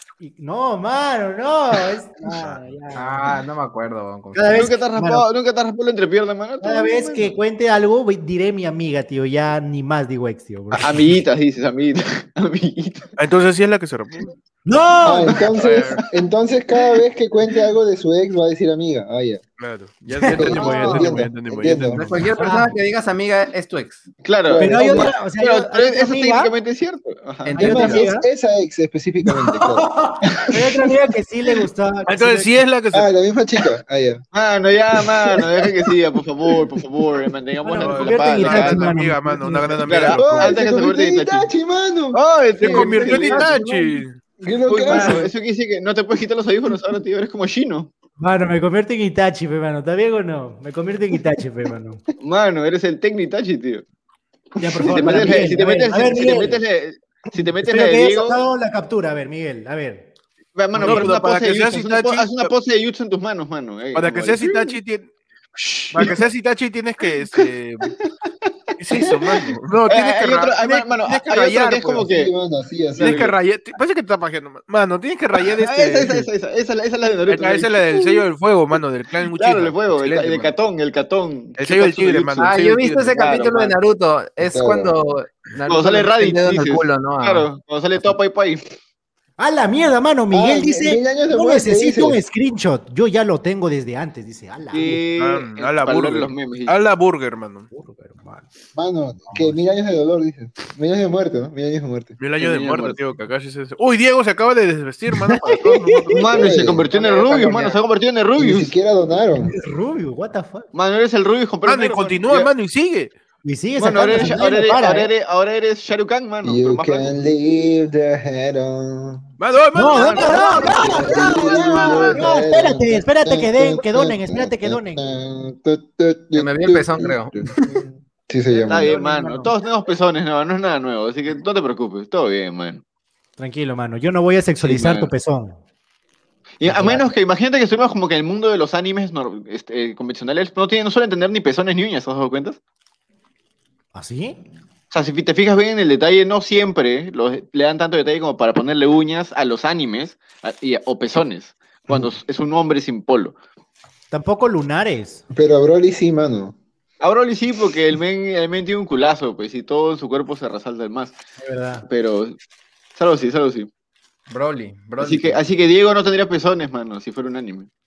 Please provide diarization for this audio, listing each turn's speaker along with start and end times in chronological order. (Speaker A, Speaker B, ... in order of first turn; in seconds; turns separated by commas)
Speaker A: 0.2-3.3, Speaker B: 2.9-4.7, Speaker A: 4.3-5.3, Speaker C: 4.5-7.4, Speaker A: 6.6-10.9, Speaker C: 10.8-13.1, Speaker D: 13.2-14.3, Speaker A: 14.7-15.5, Speaker E: 15.0-19.4, Speaker D: 15.6-16.0, Speaker C: 15.6-16.0, Speaker D: 19.6-22.2, Speaker A: 20.2-21.1, Speaker E: 20.3-22.1, Speaker B: 21.9-24.1, Speaker A: 22.4-22.7, Speaker C: 24.2-28.0, Speaker E: 24.4-25.1, Speaker A: 24.6-26.5, Speaker B: 27.4-28.0, Speaker A: 27.6-28.3, Speaker E: 27.6-29.9, Speaker C: 30.2-30.6, Speaker A: 30.5-32.6, Speaker D: 32.1-33.1, Speaker E: 32.9-34.2, Speaker C: 34.3-38.9, Speaker A: 37.6-39.8, Speaker D: 37.8-40.6, Speaker C: 39.9-41.5, Speaker E: 40.1-43.5, Speaker C: 42.1-44.0, Speaker D: 42.6-44.2, Speaker A: 42.6-42.9, Speaker E: 44.4-45.3, Speaker C: 44.7-47.9, Speaker A: 44.9-45.2, Speaker A: 48.2-52.0, Speaker C: 52.2-53.9, Speaker A: 54.6-56.6, Speaker C: 54.8-58.4, Speaker A: 57.6-60.1, Speaker C: 60.5-64.8, Speaker A: 60.8-61.1, Speaker D: 60.8-62.5, Speaker D: 63.9-65.1, Speaker C: 65.6-66.2, Speaker D: 65.9-67.9, Speaker D: 68.8-72.0, Speaker C: 69.0-72.3, Speaker E: 71.9-73.2, Speaker C: 73.0-73.3, Speaker D: 73.0-76.3, Speaker C: 75.6-78.2, Speaker D: 77.3-80.4, Speaker C: 79.3-82.5, Speaker B: 80.1-80.5, Speaker D: 81.6-83.2, Speaker B: 82.4-88.2, Speaker C: 83.2-83.8, Speaker E: 84.4-84.9, Speaker C: 85.7-88.6, Speaker A: 89.4-95.0, Speaker E: 90.3-92.2, Speaker C: 94.7-96.8, Speaker D: 95.2-97.7, Speaker A: 97.7-98.5, Speaker E: 98.8-102.2, Speaker D: 102.2-106.4, Speaker C: 102.4-103.0, Speaker A: 105.3-106.2, Speaker C: 106.1-108.7, Speaker E: 106.3-107.8, Speaker E: 108.4-109.5, Speaker A: 109.4-110.7, Speaker C: 110.7-112.5, Speaker D: 111.7-113.1, Speaker A: 113.4-115.1, Speaker C: 113.8-117.1, Speaker E: 116.4-119.2, Speaker D: 119.4-122.2, Speaker A: 119.8-125.0, Speaker C: 120.0-122.2, Speaker E: 120.5-129.0, Speaker B: 126.3-127.6, Speaker A: 128.5-129.5, Speaker C: 128.6-132.8, Speaker A: 133.4-135.6, Speaker C: 134.6-135.1, Speaker C: 136.6-142.6, Speaker A: 136.6-137.1, Speaker A: 143.9-144.4, Speaker C: 144.9-153.4, Speaker A: 154.1-155.2, Speaker E: 155.3-156.6, Speaker C: 157.0-161.2, Speaker A: 161.4-161.9, Speaker C: 161.9-162.4, Speaker C: 163.0-163.7, Speaker B: 164.3-165.4, Speaker C: 165.0-167.7